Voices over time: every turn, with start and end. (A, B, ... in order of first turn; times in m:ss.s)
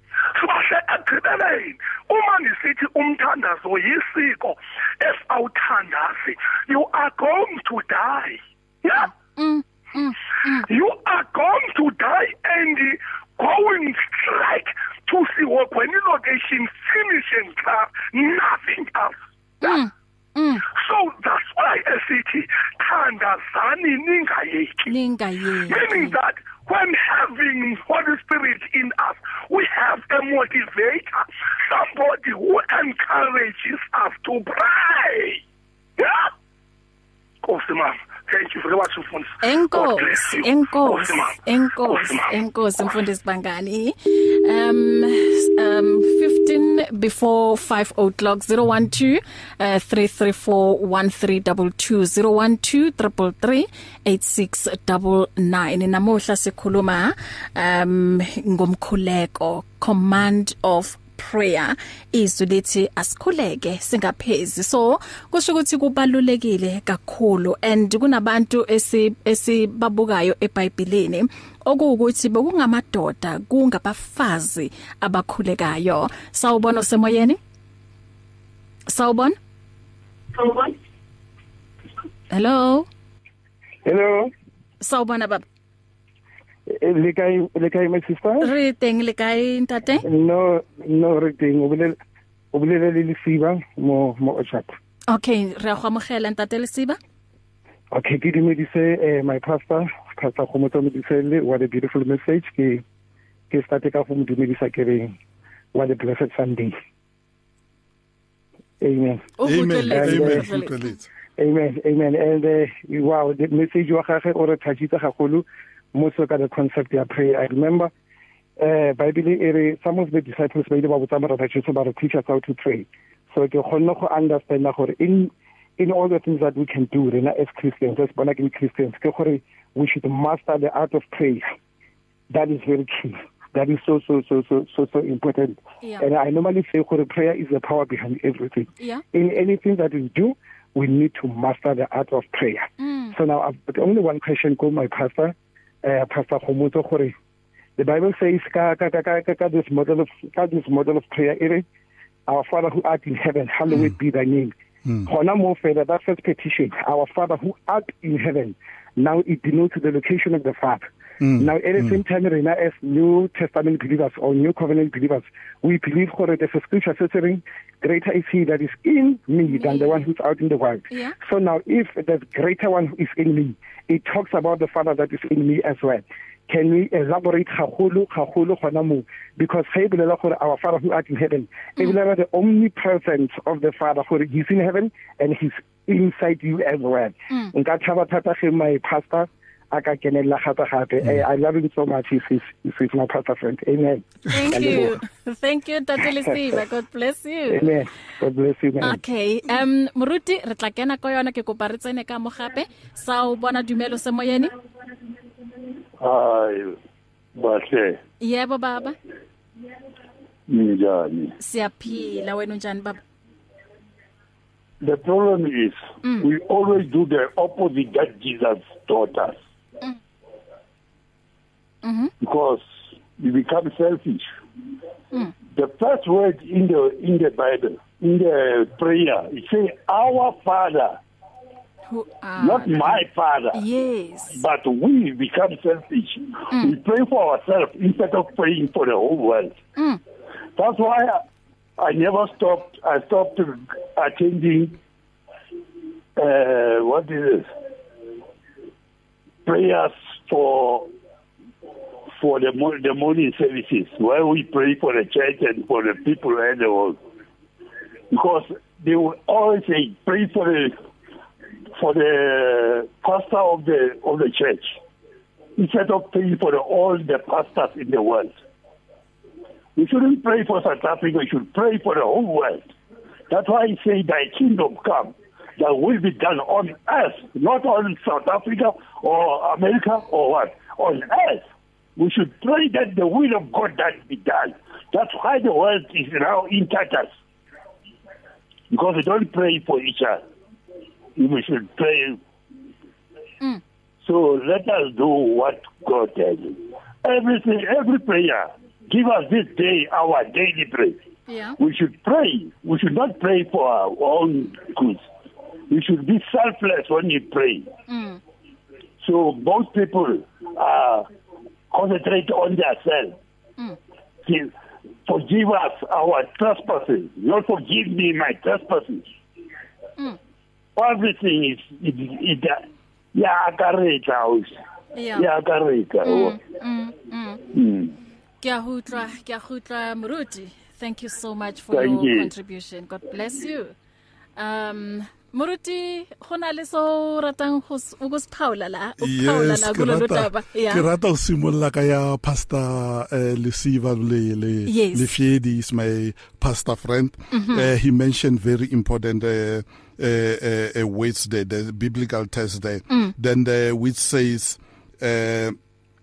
0:00.3-0:09.1 A
0:09.2-0:10.7 B
0:10.6-0:19.8 A
0:19.6-0:20.6 B
0:20.6-0:24.9 A
0:24.9-0:26.1 B
0:25.7-0:35.4 A
0:36.0-0:36.3 A
0:37.4-0:42.3 A
0:39.4-1:17.4 B
1:18.9-1:19.4 B
1:22.3-1:22.9 B
1:23.8-1:24.3 C
1:24.8-1:25.4 B
1:26.7-1:28.5 C
1:28.4-1:30.0 B
1:30.0-1:32.0 C
1:32.5-1:34.7 C
1:35.1-1:37.0 B
1:37.9-1:42.8 C
1:43.5-1:45.2 C
1:45.7-1:46.8 C
1:48.8-1:50.5 C
1:49.4-1:50.7 B
1:49.4-1:51.0 D
1:51.4-1:57.9 C
1:58.6-2:11.5 C
2:12.3-2:27.1 C
2:22.8-2:23.1 B
2:27.8-2:31.6 C
2:32.3-2:34.5 C
2:35.0-3:15.0 C
2:41.2-2:42.0 D
2:49.5-2:50.1 B
2:50.9-2:51.1 B
3:14.3-3:17.7 B
3:17.5-3:19.0 C
3:18.8-3:24.5 B
3:26.0-3:26.8 E
3:27.4-3:28.0 E
3:28.2-3:29.0 B
3:30.5-3:31.4 E
3:31.4-3:33.0 B
3:34.8-3:39.4 E
3:41.8-3:42.1 B
3:42.2-3:44.3 E
3:45.5-3:51.0 E
3:51.9-3:54.4 B
3:52.4-3:53.6 E
3:54.3-3:59.5 E
4:00.6-4:01.2 E
4:01.8-4:04.8 E
4:06.2-4:07.5 E
4:09.4-4:10.9 E
4:12.2-4:17.0 E
4:18.1-4:20.7 E
4:21.8-4:24.8 E
4:25.6-4:28.3 E
4:29.8-4:32.7 E
4:33.3-4:41.4 E
4:42.0-4:47.1 E
4:48.7-4:50.2 E
4:51.2-4:52.2 E
4:54.0-5:01.0 E
5:01.3-5:01.6 B
5:01.6-5:05.0 E
5:05.7-5:07.7 E
5:07.9-5:08.2 B
5:09.0-5:11.0 E
5:11.7-5:13.2 E
5:14.2-5:14.5 E
5:15.1-5:19.1 E
5:20.8-5:24.5 E
5:24.9-5:25.3 B
5:25.2-5:26.4 E
5:26.0-5:27.4 B
5:27.5-5:27.9 E
5:28.4-5:33.7 B
5:31.7-5:32.3 E
5:34.4-5:40.8 B
5:39.0-5:55.6 D
5:44.7-5:45.1 B
5:47.3-5:47.7 B